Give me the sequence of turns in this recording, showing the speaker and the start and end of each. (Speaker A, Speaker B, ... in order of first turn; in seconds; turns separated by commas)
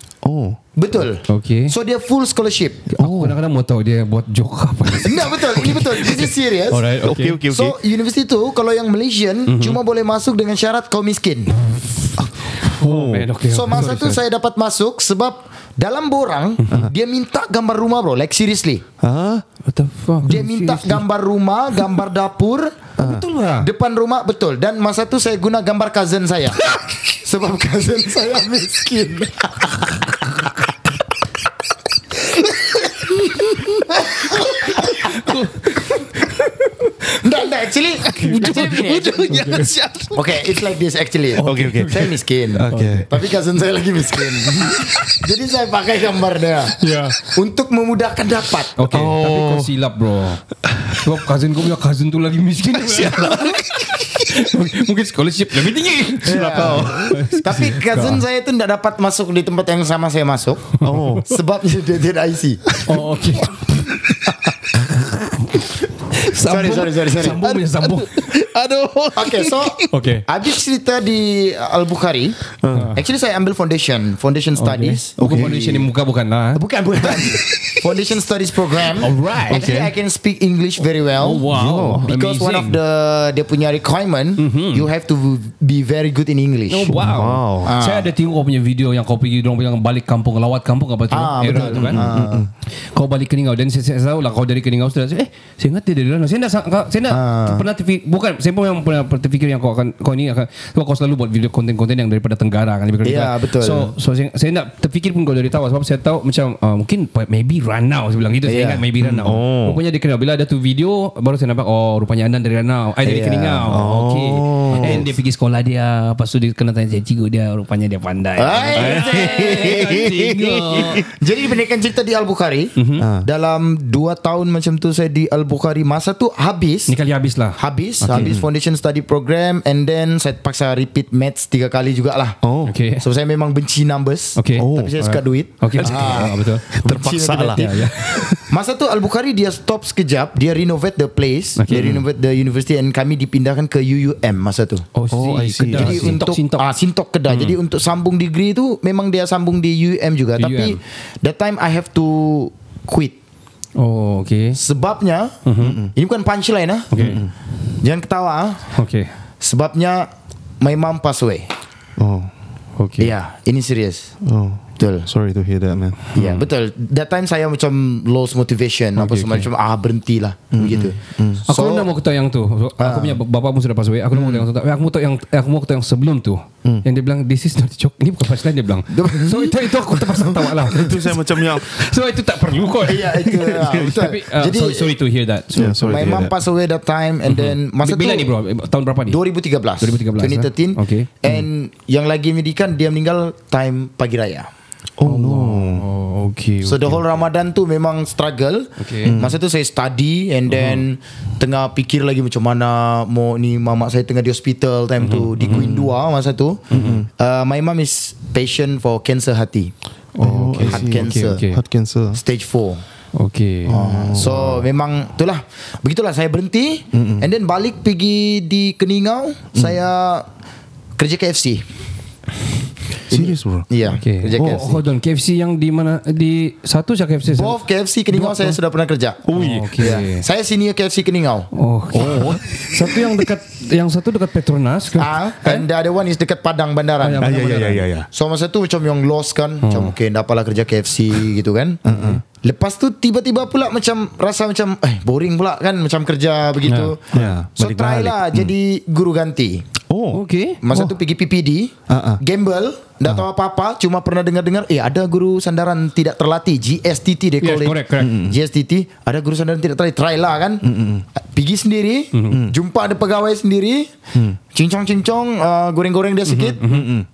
Speaker A: 0.2-0.6, Speaker B: 0.8-2.9, Speaker C: 1.3-1.7, Speaker C: 2.9-7.4, Speaker A: 3.0-3.4, Speaker B: 5.0-6.8, Speaker A: 7.0-7.8, Speaker B: 7.5-11.5, Speaker C: 9.5-9.8, Speaker A: 12.2-13.3, Speaker C: 12.6-14.2, Speaker B: 13.5-18.8, Speaker C: 16.6-16.9, Speaker A: 19.0-19.4, Speaker C: 19.6-21.0, Speaker B: 20.2-22.9, Speaker A: 23.0-23.2, Speaker C: 23.0-23.7, Speaker B: 23.6-30.1, Speaker A: 33.5-33.8, Speaker B: 37.2-39.4, Speaker A: 38.1-40.2, Speaker C: 38.2-38.7, Speaker C: 39.2-39.7, Speaker B: 40.1-48.7, Speaker C: 41.3-42.1, Speaker A: 41.5-42.0, Speaker A: 42.5-43.1, Speaker C: 42.7-43.0, Speaker C: 46.8-47.2, Speaker C: 48.8-58.2, Speaker A: 48.9-49.7, Speaker A: 52.8-54.0, Speaker A: 56.2-57.2, Speaker B: 56.2-60.7, Speaker A: 60.8-61.3, Speaker C: 60.9-61.2, Speaker B: 61.2-62.7, Speaker C: 62.8-63.7, Speaker A: 64.8-65.1, Speaker C: 66.1-68.3, Speaker B: 66.4-67.4, Speaker A: 67.4-69.9, Speaker B: 69.1-72.4, Speaker C: 69.9-70.2, Speaker A: 72.6-72.9, Speaker C: 72.7-73.0, Speaker B: 72.9-75.6, Speaker C: 74.6-76.6, Speaker A: 75.2-75.8, Speaker B: 76.5-81.5, Speaker C: 79.0-79.7, Speaker A: 79.5-79.9, Speaker C: 81.2-82.8, Speaker A: 81.5-82.0, Speaker B: 82.0-87.0, Speaker C: 84.4-84.9, Speaker C: 86.7-92.0, Speaker A: 86.9-87.7, Speaker B: 87.6-88.1, Speaker B: 91.1-92.5, Speaker A: 91.7-92.5, Speaker C: 92.9-121.0, Speaker B: 97.1-97.6, Speaker B: 103.0-103.9, Speaker B: 108.4-108.8, Speaker A: 109.0-109.8, Speaker B: 113.0-113.7, Speaker A: 113.7-115.1, Speaker B: 114.7-115.0, Speaker B: 118.4-120.0, Speaker A: 118.8-121.1, Speaker B: 121.0-126.9, Speaker C: 122.8-123.0, Speaker A: 123.0-123.3, Speaker C: 126.9-128.3, Speaker B: 127.5-132.4, Speaker A: 128.1-128.4, Speaker A: 132.4-132.7, Speaker C: 132.7-133.0, Speaker B: 133.0-137.9, Speaker C: 134.3-136.7, Speaker A: 134.6-135.0, Speaker A: 135.8-138.4, Speaker C: 137.6-137.9, Speaker B: 138.5-144.8, Speaker C: 141.6-142.0, Speaker A: 141.7-142.0, Speaker C: 144.9-146.6, Speaker A: 145.1-146.2, Speaker B: 145.7-153.2, Speaker C: 147.3-147.5, Speaker C: 150.4-150.8, Speaker C: 153.8-154.6, Speaker B: 154.5-155.4, Speaker C: 155.4-155.8, Speaker A: 155.6-155.9, Speaker B: 155.9-156.9, Speaker C: 156.9-157.2, Speaker A: 157.0-157.3, Speaker B: 157.8-158.7, Speaker C: 158.7-159.1, Speaker B: 159.4-161.5, Speaker A: 162.0-162.3, Speaker C: 162.8-163.1, Speaker B: 163.0-164.1, Speaker A: 164.2-166.0, Speaker B: 164.8-165.1, Speaker C: 166.1-166.4, Speaker B: 166.1-171.9, Speaker C: 169.0-169.5, Speaker A: 170.5-171.4, Speaker C: 171.5-180.9, Speaker B: 172.8-173.2, Speaker B: 174.2-174.4, Speaker B: 178.9-180.3, Speaker A: 180.7-181.8, Speaker C: 181.6-185.8, Speaker B: 182.8-184.9, Speaker A: 183.3-183.9, Speaker A: 185.5-186.4, Speaker B: 185.6-188.3, Speaker C: 187.3-189.2, Speaker B: 189.1-194.5, Speaker C: 189.8-191.1, Speaker A: 195.0-195.8, Speaker C: 195.0-197.2, Speaker B: 196.6-206.6, Speaker C: 198.8-199.1, Speaker A: 199.0-199.3, Speaker C: 200.5-200.8, Speaker C: 205.0-205.8, Speaker C: 206.7-207.0, Speaker A: 206.7-207.1, Speaker B: 207.2-209.7, Speaker C: 210.1-211.6, Speaker A: 210.2-212.2, Speaker B: 210.7-211.4, Speaker B: 212.1-212.8, Speaker C: 213.2-213.8, Speaker A: 213.7-214.6, Speaker B: 213.7-220.2, Speaker A: 216.9-217.3, Speaker B: 221.0-221.6, Speaker A: 223.1-223.7, Speaker B: 223.1-224.8, Speaker C: 223.9-227.6, Speaker A: 224.4-224.7, Speaker B: 227.3-229.2, Speaker C: 228.1-228.6, Speaker A: 229.2-229.8, Speaker C: 229.3-230.2, Speaker B: 229.8-231.5, Speaker C: 231.5-235.7, Speaker A: 231.9-233.2, Speaker B: 234.9-241.8, Speaker C: 237.0-237.9, Speaker A: 237.2-238.1, Speaker C: 239.6-239.9, Speaker A: 241.8-242.2, Speaker C: 241.9-242.2, Speaker B: 242.3-249.6, Speaker C: 246.7-246.9, Speaker A: 247.1-248.5, Speaker A: 249.9-250.2, Speaker C: 250.1-250.6, Speaker B: 250.6-263.9, Speaker A: 251.9-252.2, Speaker C: 257.4-258.1, Speaker A: 258.0-258.4, Speaker A: 260.6-261.0, Speaker C: 262.1-262.4, Speaker B: 264.5-266.6, Speaker C: 266.2-266.9, Speaker A: 266.6-267.1